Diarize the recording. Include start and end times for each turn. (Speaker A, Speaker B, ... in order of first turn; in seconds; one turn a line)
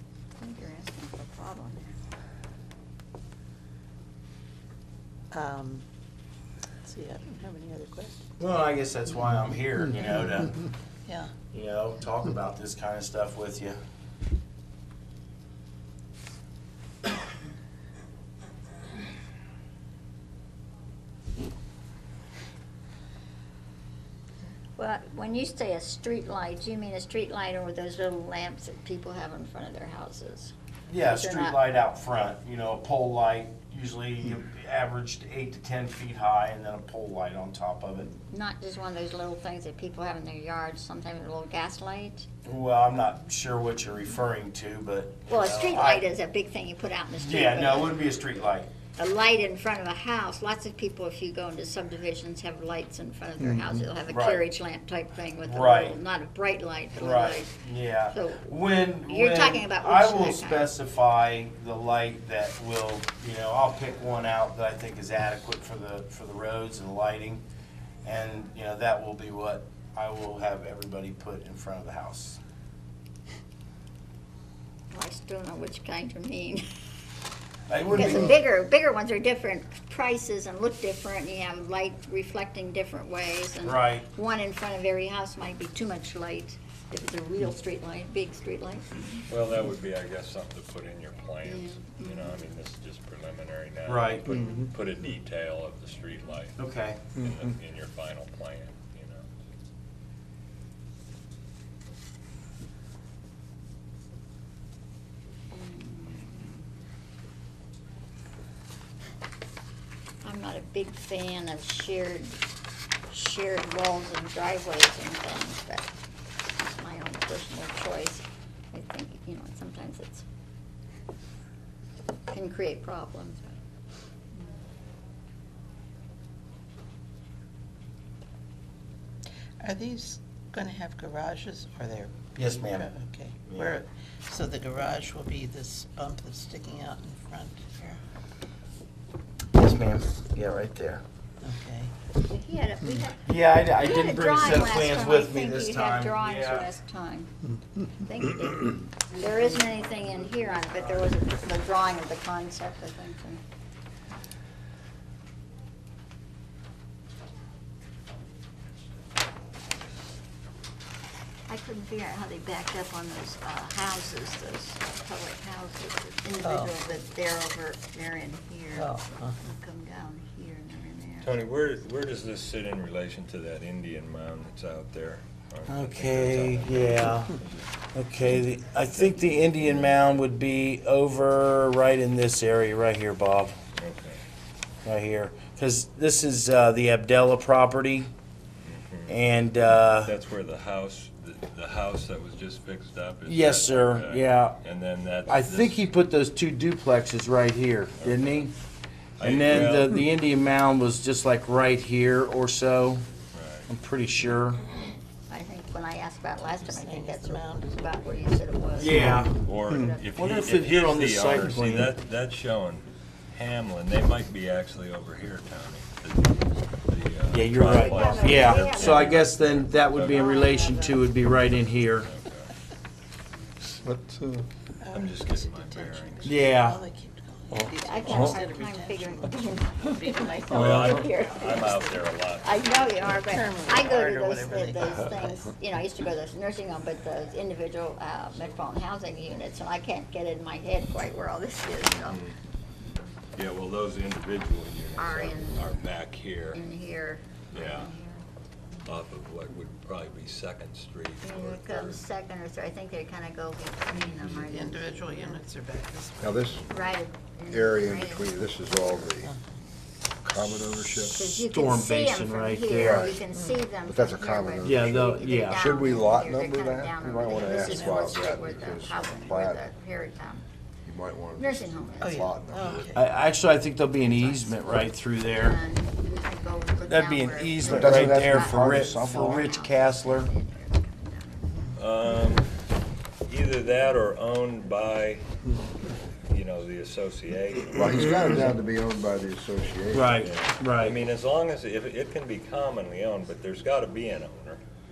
Speaker A: 0.4-1.9
Speaker B: 5.3-5.8
Speaker B: 6.8-8.3
Speaker C: 8.4-10.5
Speaker B: 11.1-11.3
Speaker C: 11.5-13.8
Speaker A: 24.8-30.5
Speaker C: 30.9-38.1
Speaker A: 31.1-31.6
Speaker A: 38.3-42.2
Speaker C: 42.4-46.0
Speaker A: 45.3-48.1
Speaker C: 47.2-48.7
Speaker A: 49.0-57.5
Speaker C: 54.1-54.4
Speaker C: 55.4-56.0
Speaker C: 56.9-67.4
Speaker A: 58.1-58.4
Speaker A: 59.0-60.7
Speaker C: 68.0-72.4
Speaker A: 74.9-76.7
Speaker C: 77.7-78.4
Speaker A: 77.9-89.2
Speaker C: 83.6-84.1
Speaker D: 89.3-96.6
Speaker A: 91.4-92.4
Speaker C: 93.8-94.6
Speaker C: 96.6-97.1
Speaker D: 97.1-99.3
Speaker A: 105.5-106.6
Speaker A: 110.2-112.4
Speaker A: 113.1-115.9
Speaker A: 116.5-120.2
Speaker A: 122.3-123.6
Speaker B: 129.6-138.0
Speaker C: 132.3-133.8
Speaker C: 139.6-141.0
Speaker B: 141.4-141.9
Speaker A: 142.2-147.3
Speaker C: 143.2-146.7
Speaker A: 148.0-153.4
Speaker A: 161.5-171.3
Speaker B: 166.4-166.7
Speaker B: 168.7-169.4
Speaker D: 171.2-177.7
Speaker C: 175.7-177.3
Speaker C: 177.9-183.6
Speaker D: 178.8-180.0
Speaker D: 183.7-184.2
Speaker C: 184.8-188.1
Speaker D: 188.6-189.2
Speaker C: 189.1-190.1
Speaker D: 189.8-195.8
Speaker C: 193.2-194.6
Speaker C: 195.3-198.5
Speaker D: 198.0-198.5
Speaker D: 199.2-200.0
Speaker C: 199.2-203.0
Speaker D: 203.3-203.7
Speaker C: 203.7-204.6
Speaker A: 205.3-210.1
Speaker B: 206.6-207.9
Speaker C: 208.8-209.3
Speaker D: 208.9-220.3
Speaker C: 210.1-211.9
Speaker C: 217.3-222.1
Speaker A: 217.7-219.3
Speaker A: 219.9-221.1
Speaker D: 222.0-222.5
Speaker B: 224.8-230.8
Speaker D: 224.9-226.5
Speaker C: 226.2-226.8
Speaker A: 227.8-242.2
Speaker D: 230.5-233.2
Speaker B: 233.1-235.4
Speaker D: 241.9-242.3
Speaker D: 243.3-246.6
Speaker A: 244.9-245.8
Speaker A: 246.5-248.2
Speaker D: 247.5-247.9
Speaker D: 248.8-252.0
Speaker A: 251.2-255.4
Speaker D: 253.9-254.4
Speaker B: 254.4-256.5
Speaker E: 256.2-256.8
Speaker A: 256.7-259.1
Speaker E: 257.5-259.3
Speaker E: 260.2-261.3
Speaker A: 261.1-270.4
Speaker C: 261.4-263.1
Speaker E: 262.7-263.2
Speaker B: 263.3-263.6
Speaker E: 263.9-269.6
Speaker C: 264.6-265.6
Speaker B: 267.6-268.1
Speaker E: 270.8-273.0
Speaker A: 271.4-272.3
Speaker B: 272.0-273.0
Speaker C: 272.9-275.6
Speaker A: 273.2-274.7
Speaker A: 275.3-281.5
Speaker C: 276.9-280.3
Speaker E: 277.6-279.4
Speaker D: 281.8-282.5
Speaker D: 283.2-285.3
Speaker D: 286.3-288.1
Speaker E: 287.7-290.2
Speaker C: 289.9-291.0
Speaker D: 290.2-294.6